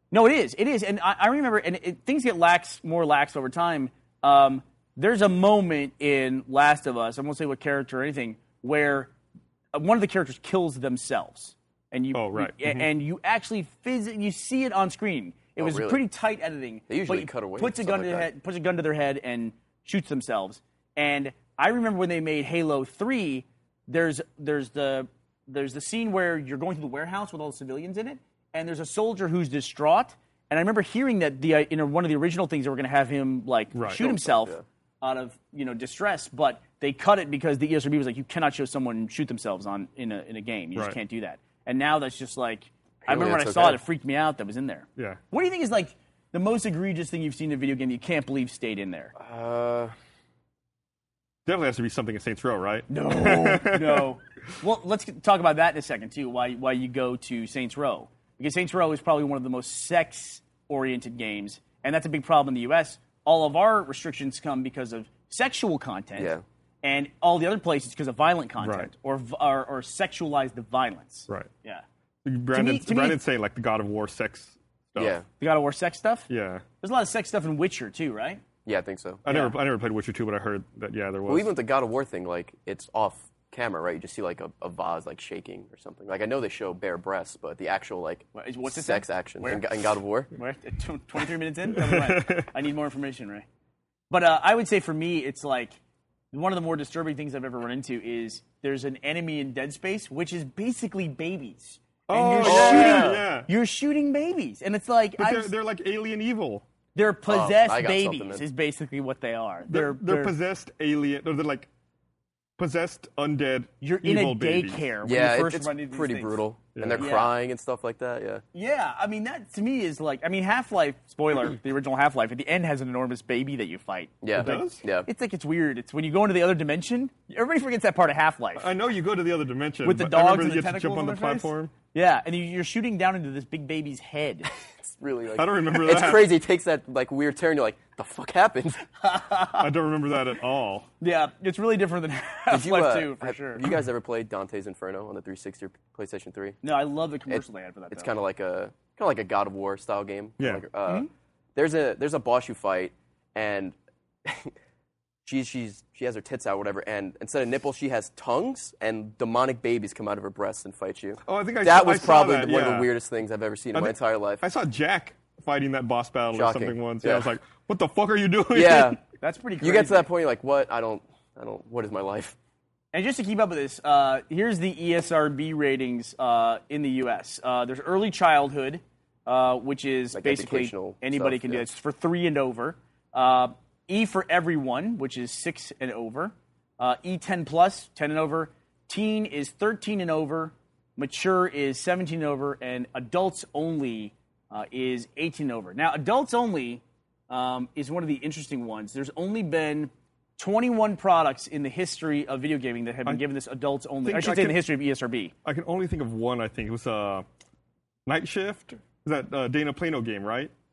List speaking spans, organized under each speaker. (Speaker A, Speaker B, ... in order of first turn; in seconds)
Speaker A: 0.1-9.1, 9.7-49.1, 52.9-71.8, 72.5-73.2, 75.4-76.3, 76.8-78.4, 79.3-79.5, 88.3-89.6, 90.3-93.5, 94.1-95.8, 96.3-105.5, 107.0-110.3, 113.8-116.4, 117.0-117.3, 118.5-128.7, 129.8-134.5, 139.0-139.7, 141.0-143.6, 146.6-148.1, 169.2-170.1, 172.9-205.3
Speaker B: 12.1-12.9, 33.8-34.0, 51.5-54.1, 68.6-68.9, 72.2-75.2, 76.3-76.6, 79.2-81.5, 91.7-92.5, 102.1-103.5, 105.2-106.6, 109.7-111.7, 112.6-114.9, 116.8-117.1, 124.4-124.8, 128.6-131.7, 135.3-136.3, 139.6-140.9, 161.3-162.9, 163.7-169.0, 204.1-204.6, 205.4-207.2, 208.1-210.5
Speaker C: 15.6-16.0, 16.9-18.3, 33.9-34.6, 43.1-43.8, 49.2-50.0, 66.2-66.4, 75.0-75.2, 78.7-79.2, 81.3-90.3, 102.4-103.2, 107.3-108.4, 115.0-118.4, 124.2-125.1, 134.8-138.8, 142.5-146.6, 147.3-154.5, 155.2-164.4, 166.3-167.3, 168.5-169.0, 169.6-172.4, 180.1-181.6